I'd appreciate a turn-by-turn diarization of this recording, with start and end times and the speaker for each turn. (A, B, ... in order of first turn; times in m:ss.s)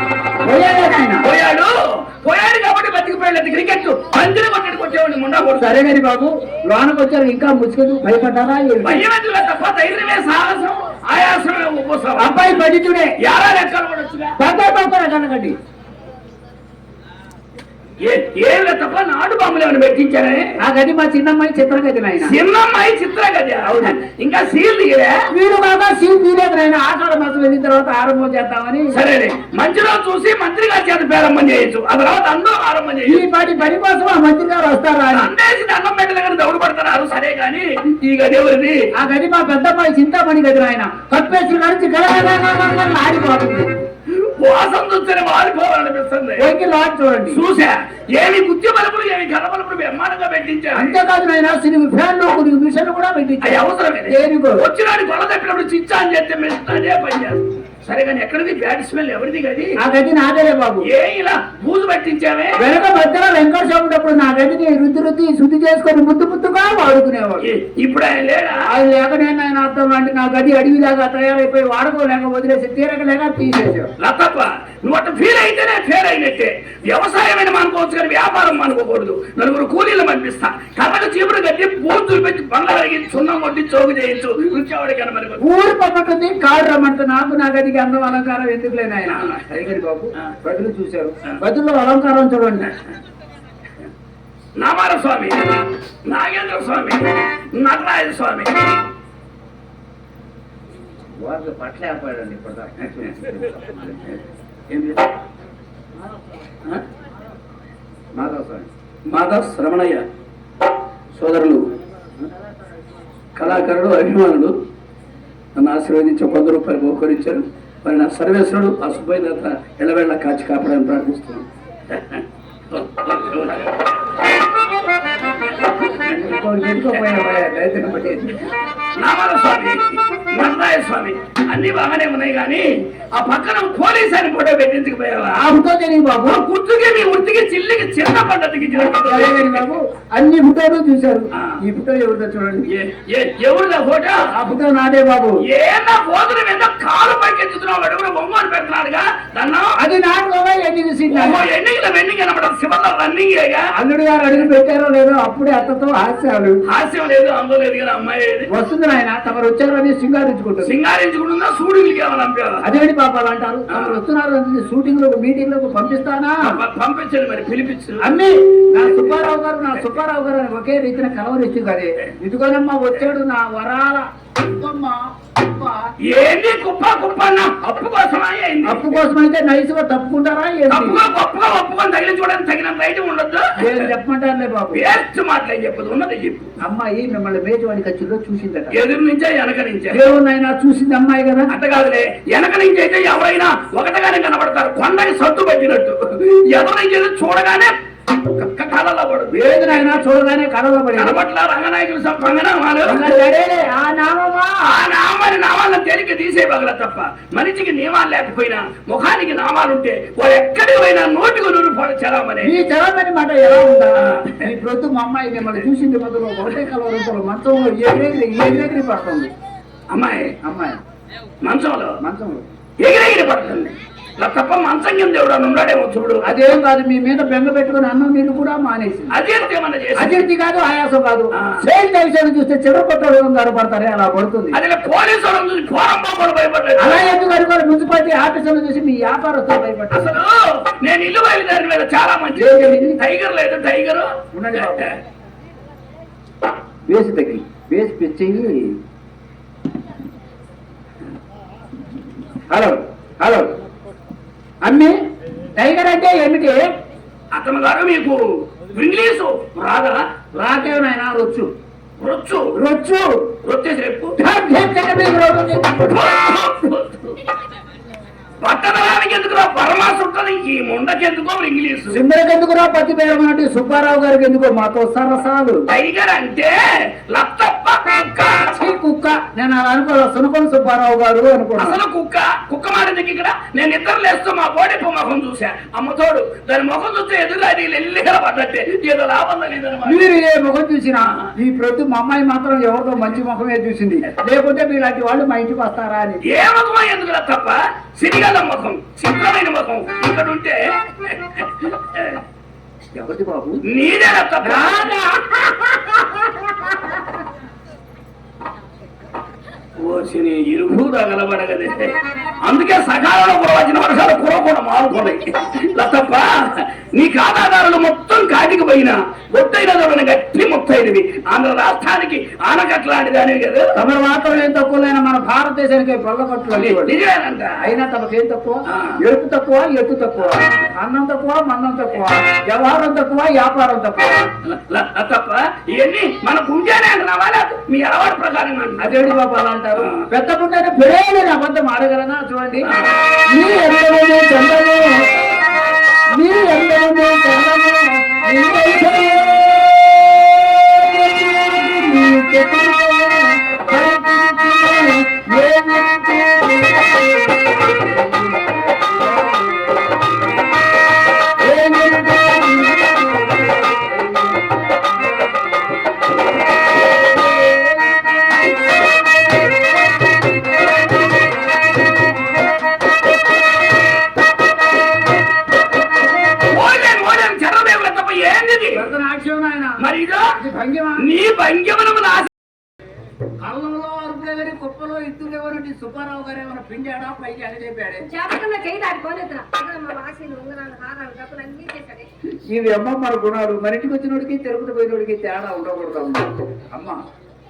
0:00.4-0:01.3 A
0:01.2-0:05.8 B
0:05.5-0:09.0 A
0:08.8-0:12.4 B
0:12.2-0:13.2 A
0:13.2-0:14.3 B
0:14.4-0:15.6 A
0:18.0-0:20.6 B
0:20.6-0:22.4 A
0:22.2-0:25.3 B
0:23.6-0:24.0 A
0:25.3-0:29.0 A
0:28.9-0:33.3 B
0:33.0-0:35.3 A
0:35.1-0:38.8 B
0:38.9-0:43.7 A
0:44.1-0:46.5 B
0:46.4-0:47.4 A
0:47.3-0:51.0 B
0:50.7-0:54.7 A
0:53.4-0:59.8 B
0:59.8-1:00.9 A
1:00.8-1:02.6 B
1:02.6-1:07.5 A
1:07.4-1:08.6 B
1:08.7-1:13.9 A
1:14.0-1:25.4 B
1:25.4-1:32.7 A
1:29.0-1:29.6 B
1:34.6-1:38.7 B
1:41.1-1:44.0 A
1:42.9-1:44.2 B
1:44.7-1:45.1 B
1:48.1-1:48.7 A
1:49.1-1:50.0 B
1:51.1-1:51.7 B
1:53.4-1:54.6 B
1:55.5-2:04.0 B
2:05.9-2:08.4 A
2:09.0-2:15.4 B
2:15.3-2:16.4 A
2:16.2-2:19.6 B
2:18.8-2:22.7 A
2:22.7-2:24.3 B
2:24.3-2:25.4 A
2:25.4-2:29.8 B
2:29.8-2:31.5 A
2:31.1-2:33.6 B
2:33.7-2:36.6 A
2:36.6-2:38.5 B
2:38.5-2:40.7 A
2:40.6-2:42.6 B
2:42.6-2:46.6 A
2:43.7-2:44.0 B
2:46.4-2:48.1 B
2:48.0-2:55.8 A
2:48.7-2:49.2 B
2:56.0-2:59.0 B
2:58.6-3:01.0 A
3:00.7-3:03.9 B
3:03.6-3:04.9 A
3:04.7-3:06.5 B
3:06.6-3:08.8 A
3:08.7-3:10.0 B
3:09.9-3:11.5 A
3:11.5-3:20.0 B
3:19.3-3:21.2 A
3:20.9-3:23.1 B
3:22.8-3:24.8 A
3:24.6-3:32.5 B
3:32.4-3:39.3 A
3:34.0-3:34.5 B
3:39.9-3:40.4 B
3:40.4-3:40.8 A
3:41.4-3:42.0 B
3:42.0-3:42.4 A
3:42.8-3:46.3 B
3:46.2-3:49.2 A
3:49.1-3:50.2 B
3:50.0-3:54.6 A
3:51.3-3:51.6 B
3:54.5-3:57.1 B
3:56.8-4:00.2 A
3:59.9-4:05.0 B
4:02.3-4:03.0 A
4:04.3-4:05.0 A
4:06.9-4:08.8 A
4:12.5-4:13.5 A
4:14.6-4:14.9 A
4:15.5-4:16.6 A
4:17.3-4:20.0 B
4:20.3-4:21.5 A
4:22.0-4:22.5 B
4:22.5-4:23.1 A
4:23.4-4:24.1 B
4:24.2-4:25.9 A
4:25.8-4:27.2 B
4:28.4-4:32.0 B
4:31.9-4:35.6 A
4:35.7-4:38.5 B
4:38.5-4:41.8 A
4:41.6-4:50.0 B
4:49.8-4:56.2 A
4:51.1-4:51.3 B
4:56.2-5:02.2 B
5:02.9-5:03.6 A
5:03.6-5:05.1 B
5:04.4-5:06.2 A
5:09.8-5:23.6 B
5:23.7-5:27.0 A
5:26.5-5:27.7 B
5:27.6-5:34.3 A
5:28.7-5:29.0 B
5:34.4-5:39.0 B
5:38.8-5:42.7 A
5:39.8-5:40.0 B
5:42.6-5:43.0 B
5:43.3-5:44.9 A
5:46.2-5:49.6 A
5:50.6-6:00.2 A
6:01.4-6:04.6 A
6:07.3-6:07.9 A
6:16.4-6:18.9 B
6:18.7-6:21.1 A
6:19.8-6:20.3 B
6:21.0-6:22.3 B
6:23.4-6:28.1 A
6:28.1-6:32.1 C
6:32.5-6:37.0 A